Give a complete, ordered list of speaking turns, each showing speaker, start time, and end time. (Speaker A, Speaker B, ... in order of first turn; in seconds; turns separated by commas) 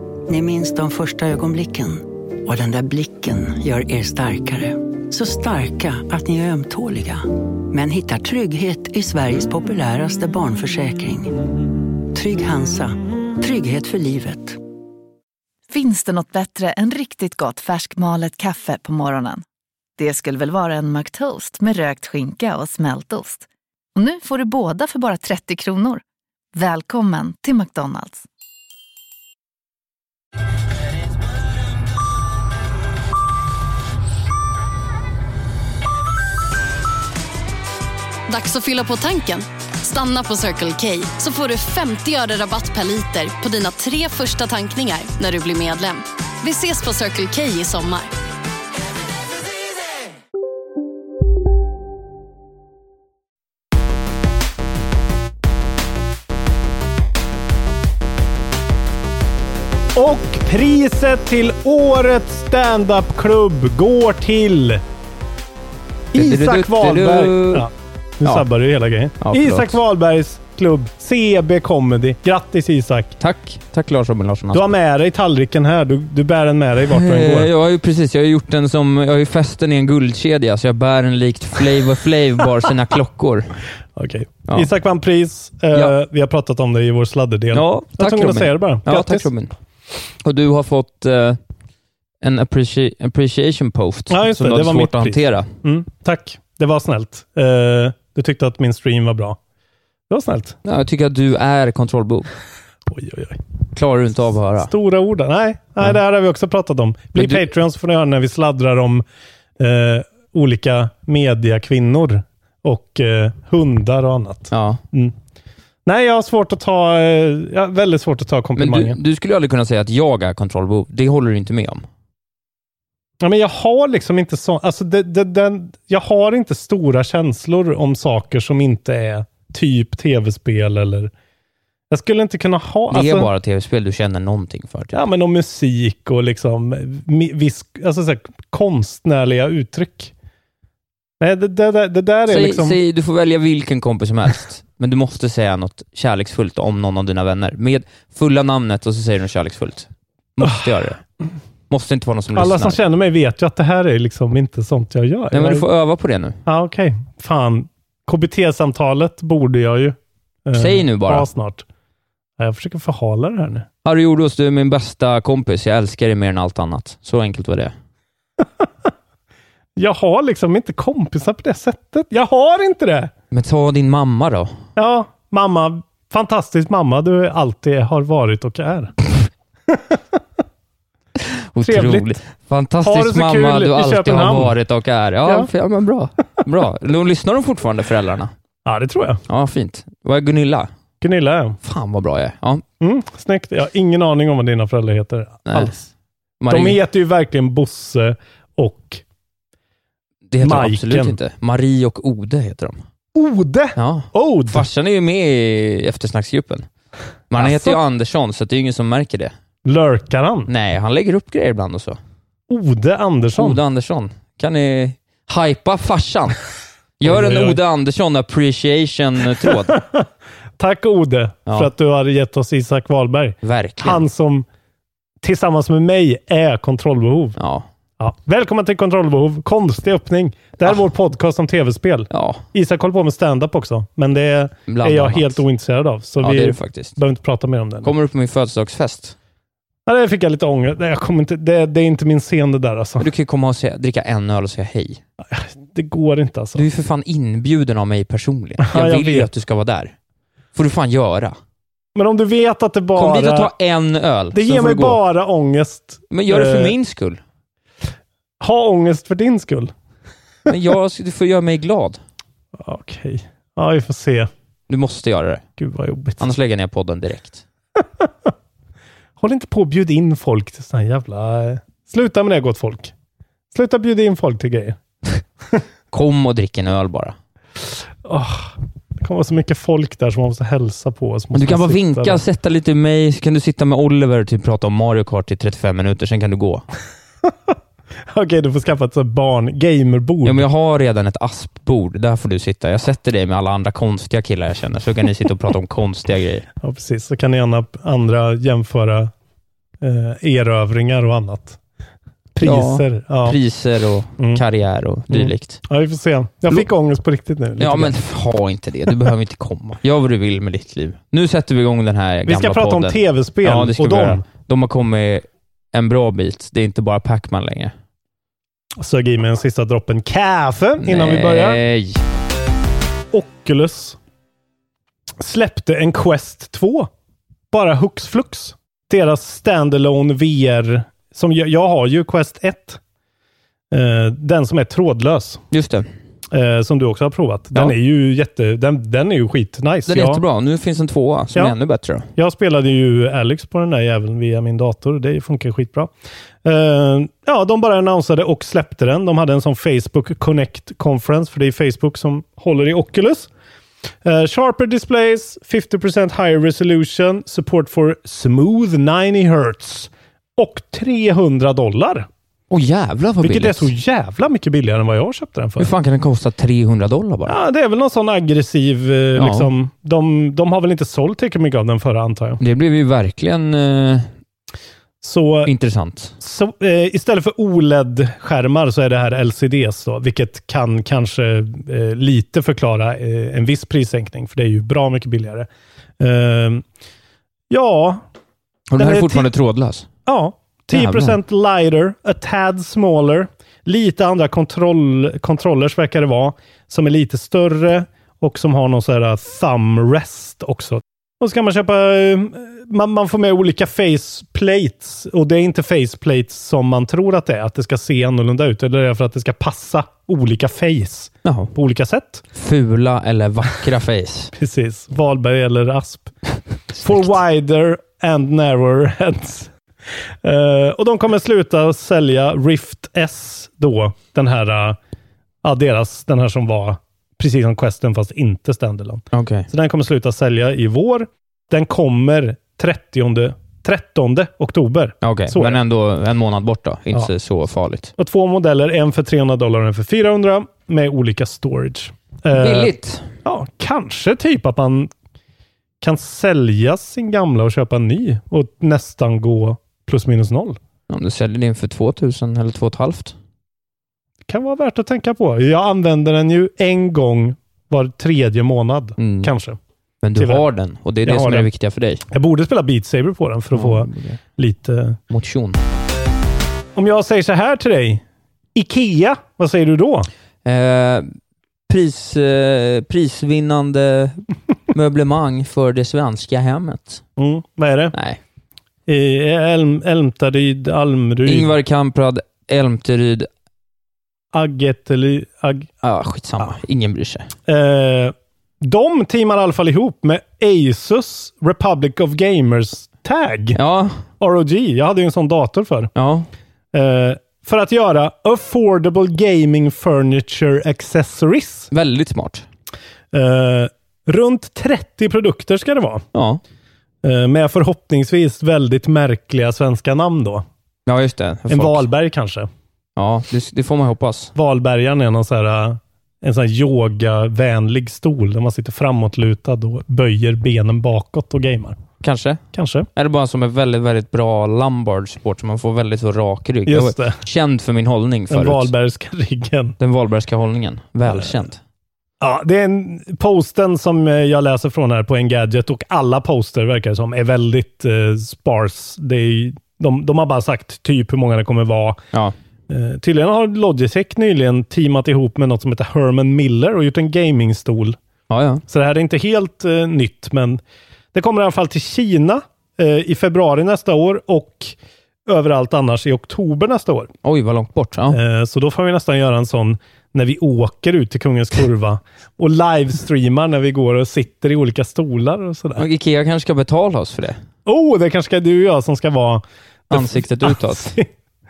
Speaker A: 0.3-11.3, Speaker A: 12.1-14.6, Speaker B: 15.7-19.4, Speaker B: 20.0-26.0, Speaker B: 26.5-28.2, Speaker C: 38.3-48.1, Speaker D: 59.9-64.8, Speaker D: 66.1-73.2, Speaker E: 66.1-67.7, Speaker E: 69.2-69.8, Speaker E: 73.2-74.6, Speaker D: 74.5-77.5, Speaker E: 76.9-83.5, Speaker D: 84.0-89.3, Speaker E: 87.5-89.5, Speaker E: 90.2-91.4, Speaker E: 92.2-95.5, Speaker D: 94.1-99.4, Speaker D: 100.1-100.5, Speaker E: 100.6-102.3, Speaker D: 102.9-103.4, Speaker E: 103.7-104.7, Speaker D: 104.6-109.0, Speaker E: 107.2-107.4, Speaker D: 109.6-115.1, Speaker E: 114.5-114.8, Speaker D: 115.8-119.0, Speaker E: 118.5-121.8, Speaker D: 123.2-131.1, Speaker D: 131.9-133.3, Speaker E: 132.9-135.0, Speaker D: 134.9-140.1, Speaker D: 141.2-142.8, Speaker E: 142.3-151.0, Speaker D: 150.4-150.7, Speaker E: 151.7-152.8, Speaker D: 152.3-155.7, Speaker E: 155.3-156.4, Speaker D: 156.4-161.6, Speaker E: 160.5-161.3, Speaker D: 162.4-163.7, Speaker E: 163.8-167.7, Speaker D: 168.4-168.7, Speaker D: 169.8-173.1, Speaker E: 173.3-174.5, Speaker D: 174.8-178.9, Speaker D: 179.7-180.1, Speaker E: 181.2-188.3, Speaker D: 181.6-182.2, Speaker D: 182.8-184.5, Speaker D: 188.6-189.2, Speaker E: 189.3-190.7, Speaker D: 191.0-191.6, Speaker E: 191.6-192.6, Speaker D: 192.8-195.9, Speaker E: 195.5-195.7, Speaker E: 196.4-196.8, Speaker D: 196.5-199.0, Speaker E: 200.3-202.8, Speaker D: 200.4-201.2, Speaker D: 203.1-204.7, Speaker E: 203.8-206.7, Speaker E: 207.3-209.3, Speaker D: 207.3-207.8, Speaker D: 209.6-210.5, Speaker E: 210.5-212.0, Speaker D: 212.5-213.6, Speaker E: 213.3-216.4, Speaker E: 217.0-219.8, Speaker D: 217.0-217.6, Speaker D: 219.4-220.1, Speaker D: 220.6-224.5, Speaker E: 223.4-224.0, Speaker D: 225.2-227.4, Speaker E: 227.4-227.7, Speaker D: 228.0-237.9, Speaker E: 232.1-232.4, Speaker E: 234.7-235.4, Speaker E: 236.2-236.9, Speaker E: 237.8-239.1, Speaker D: 239.8-243.1, Speaker E: 243.0-245.0, Speaker D: 245.3-246.7, Speaker E: 246.5-249.9, Speaker D: 248.6-249.3, Speaker E: 250.5-251.4, Speaker D: 251.9-253.5, Speaker E: 252.9-255.0, Speaker D: 254.3-256.7, Speaker E: 256.1-257.2, Speaker D: 258.4-259.7, Speaker E: 260.4-262.0, Speaker D: 262.6-264.3, Speaker E: 264.7-265.4, Speaker D: 265.6-266.3, Speaker E: 266.2-267.4, Speaker D: 267.8-268.1, Speaker D: 269.2-272.9, Speaker D: 273.5-274.8, Speaker E: 275.9-277.1, Speaker D: 278.0-282.2, Speaker E: 281.3-286.6, Speaker D: 288.1-290.4, Speaker E: 290.2-296.4, Speaker D: 296.6-299.1, Speaker D: 299.8-301.6, Speaker D: 302.3-303.4, Speaker E: 302.4-305.6, Speaker D: 304.2-304.4, Speaker D: 305.1-307.9, Speaker E: 307.6-317.7, Speaker D: 312.2-314.2, Speaker D: 318.8-321.6, Speaker E: 320.8-322.0, Speaker D: 323.1-324.0, Speaker D: 325.2-326.9, Speaker D: 327.5-332.8, Speaker D: 333.7-335.4, Speaker E: 335.5-335.9, Speaker D: 336.3-340.2, Speaker E: 339.9-342.1, Speaker D: 342.1-345.9, Speaker D: 346.4-353.3, Speaker D: 354.0-362.1, Speaker E: 362.5-363.7, Speaker D: 363.2-365.7, Speaker E: 365.6-367.4, Speaker D: 367.2-372.4, Speaker E: 369.1-369.5, Speaker E: 372.4-374.1, Speaker D: 375.0-375.5, Speaker E: 375.4-376.1, Speaker D: 376.2-385.5, Speaker D: 386.0-386.6, Speaker D: 387.5-388.0, Speaker E: 388.7-389.9, Speaker D: 388.8-389.3, Speaker D: 390.1-412.2, Speaker E: 390.7-391.2, Speaker E: 411.2-411.5, Speaker E: 412.3-414.3, Speaker D: 414.3-416.1, Speaker E: 416.7-417.1, Speaker D: 416.8-419.5, Speaker D: 420.2-424.8, Speaker D: 425.4-435.6, Speaker E: 429.1-429.5, Speaker E: 435.0-437.9, Speaker D: 437.9-442.7, Speaker E: 442.3-443.1, Speaker D: 443.2-444.9, Speaker D: 445.8-450.6, Speaker E: 450.9-453.1, Speaker D: 454.3-459.6, Speaker E: 459.0-459.3, Speaker E: 460.0-462.0, Speaker D: 460.1-460.4, Speaker D: 461.0-461.5, Speaker D: 462.1-465.0, Speaker E: 463.5-464.2, Speaker E: 465.1-465.6, Speaker D: 466.7-468.0, Speaker D: 468.5-470.1, Speaker E: 470.4-471.1, Speaker E: 471.7-477.0, Speaker D: 477.2-477.9, Speaker E: 477.9-478.2, Speaker D: 478.9-481.5, Speaker E: 481.2-483.3, Speaker D: 484.3-485.7, Speaker E: 485.8-487.3, Speaker D: 487.5-493.6, Speaker E: 493.5-494.0, Speaker D: 494.2-495.9, Speaker E: 495.9-496.3, Speaker D: 496.7-501.7, Speaker E: 501.7-502.4, Speaker D: 503.1-506.0, Speaker E: 506.1-506.4, Speaker D: 507.0-510.4, Speaker E: 510.9-511.9, Speaker D: 511.5-512.5, Speaker E: 513.0-514.3, Speaker D: 514.3-521.8, Speaker E: 522.0-522.4, Speaker D: 522.5-522.9, Speaker E: 522.9-528.7, Speaker D: 526.6-527.2, Speaker D: 528.3-529.8, Speaker E: 529.8-531.6, Speaker D: 531.1-531.4, Speaker D: 532.2-542.0, Speaker D: 542.7-548.0, Speaker E: 548.3-548.6, Speaker D: 548.7-550.6, Speaker D: 551.1-554.7, Speaker D: 555.2-557.1, Speaker E: 557.2-558.2, Speaker D: 558.1-565.8, Speaker E: 565.8-567.4, Speaker D: 567.6-571.1, Speaker E: 569.9-570.9